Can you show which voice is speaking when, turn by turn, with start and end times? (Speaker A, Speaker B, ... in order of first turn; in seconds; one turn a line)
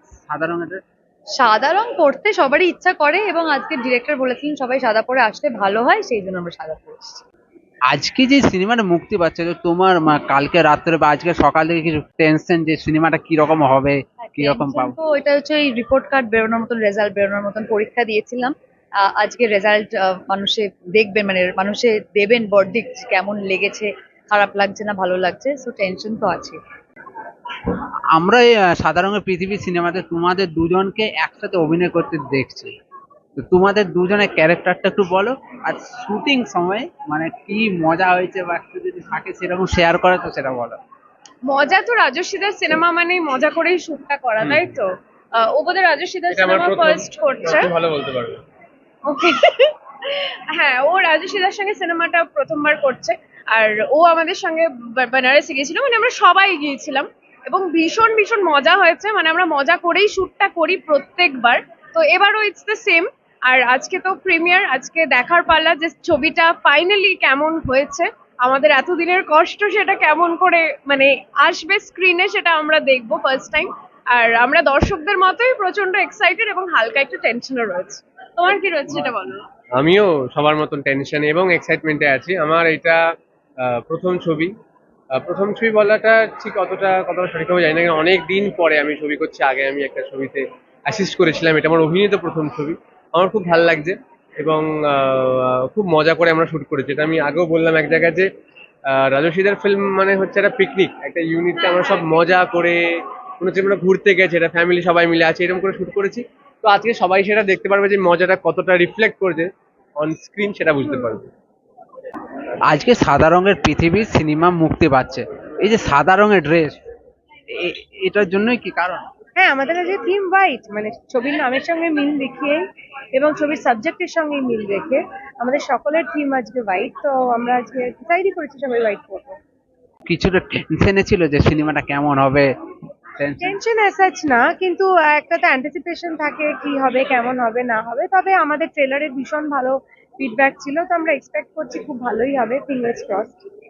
Speaker A: 0.3-0.8
Speaker B: 1.4-7.2
Speaker A: 7.9-14.9
Speaker B: 14.4-26.6
Speaker A: 28.1-32.7
Speaker A: 33.4-40.8
Speaker C: 41.5-47.7
Speaker D: 44.4-44.7
Speaker D: 46.3-48.4
Speaker C: 49.1-79.4
Speaker D: 79.8-83.0
Speaker D: 83.6-84.5
Speaker D: 85.2-98.3
Speaker D: 98.9-111.3
Speaker A: 112.7-116.8
Speaker A: 117.5-119.0
Speaker E: 119.4-122.6
Speaker E: 123.2-129.4
Speaker A: 130.1-132.5
Speaker A: 133.2-133.6
Speaker E: 133.4-143.4